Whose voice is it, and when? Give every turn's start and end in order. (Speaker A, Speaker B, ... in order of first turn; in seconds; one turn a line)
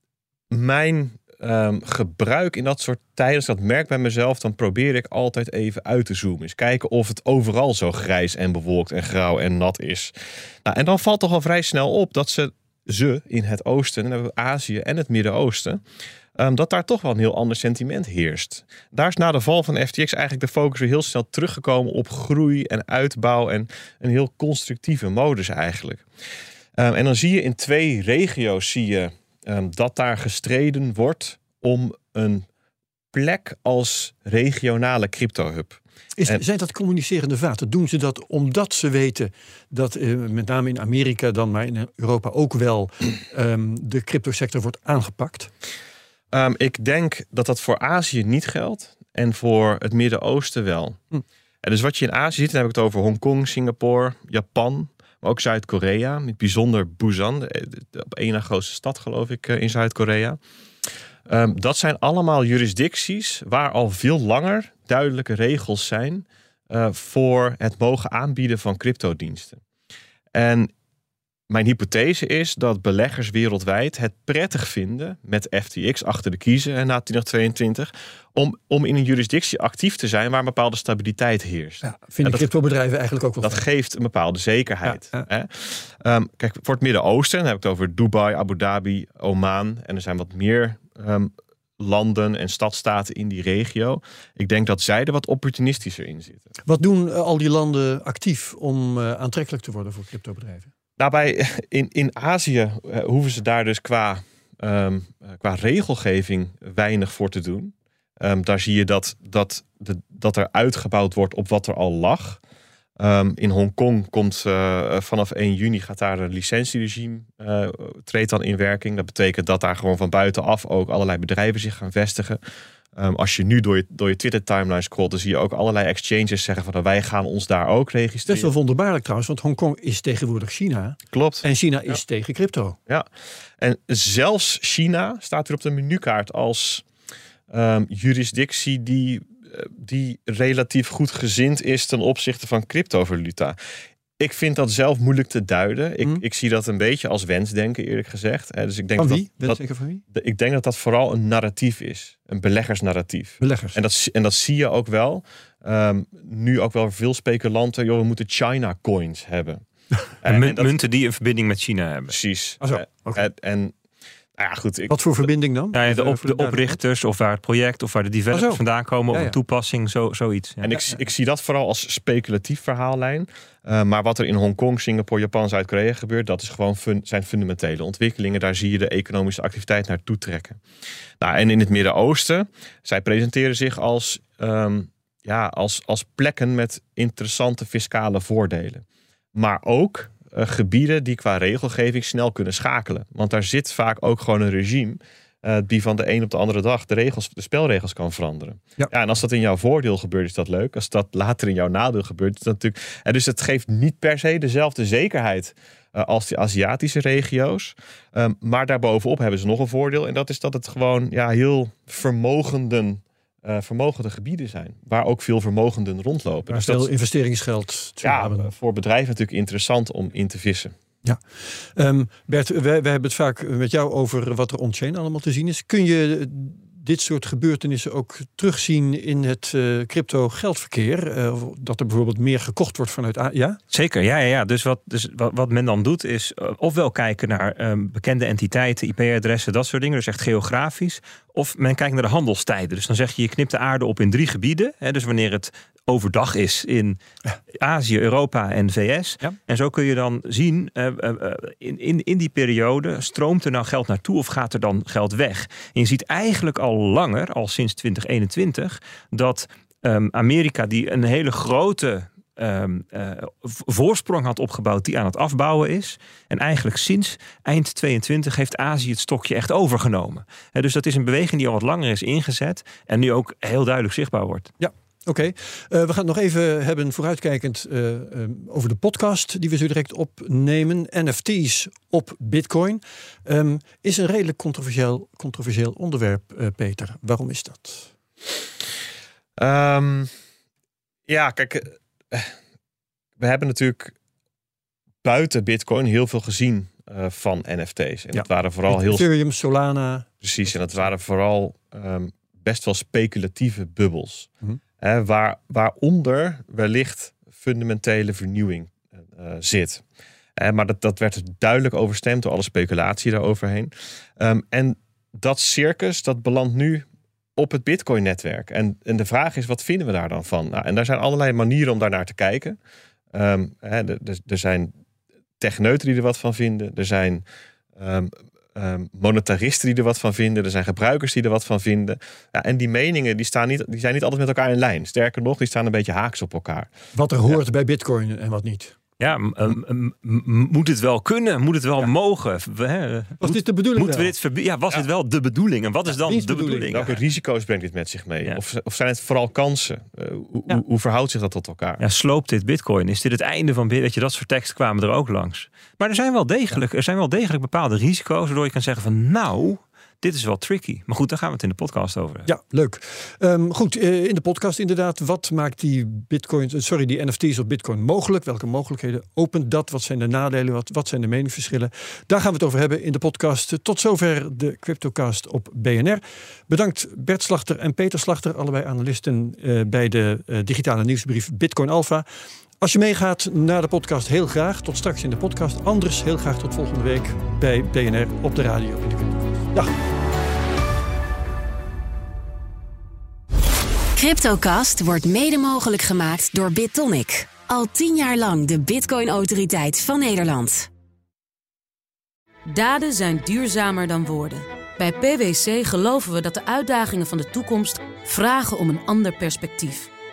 Speaker A: 0.5-10.1
Speaker A: 10.6-15.8
Speaker A: 16.4-26.0
Speaker A: 26.8-32.5
Speaker A: 33.1-36.4
Speaker B: 36.2-45.5
Speaker A: 46.3-51.0
Speaker A: 51.6-60.4
Speaker A: 61.2-69.6
Speaker A: 70.3-70.7
Speaker A: 71.5-82.5
Speaker B: 81.8-83.6
Speaker A: 83.4-96.5
Speaker B: 84.9-85.2
Speaker B: 96.7-100.7
Speaker A: 101.0-112.4
Speaker A: 113.0-122.4
Speaker A: 122.9-128.5
Speaker B: 128.3-132.8
Speaker A: 131.1-132.0
Speaker A: 133.6-136.8
Speaker A: 137.5-143.6
Speaker A: 144.2-159.6
Speaker B: 149.0-150.0
Speaker B: 153.4-153.8
Speaker A: 160.2-160.8
Speaker C: 160.2-162.1
Speaker A: 162.1-163.7
Speaker B: 162.6-163.2
Speaker A: 164.4-165.0
Speaker B: 164.9-166.7
Speaker C: 165.7-170.7
Speaker B: 168.3-168.6
Speaker A: 170.6-180.6
Speaker A: 181.2-216.9
Speaker B: 216.5-218.5
Speaker A: 218.0-220.7
Speaker B: 221.8-233.6
Speaker C: 233.7-247.0
Speaker C: 247.6-274.5
Speaker B: 274.6-287.9
Speaker A: 289.4-290.1
Speaker A: 291.1-292.3
Speaker A: 293.2-293.9
Speaker A: 295.0-299.1
Speaker B: 298.1-300.8
Speaker A: 300.2-309.8
Speaker A: 310.4-322.6
Speaker A: 323.1-324.7
Speaker A: 325.4-327.2
Speaker A: 327.8-336.7
Speaker B: 336.9-338.7
Speaker C: 339.0-346.9
Speaker B: 343.2-344.1
Speaker B: 346.0-346.9
Speaker A: 346.7-351.8
Speaker C: 351.8-362.3
Speaker B: 362.2-382.1
Speaker B: 382.6-389.7
Speaker D: 393.9-400.7
Speaker E: 402.5-409.9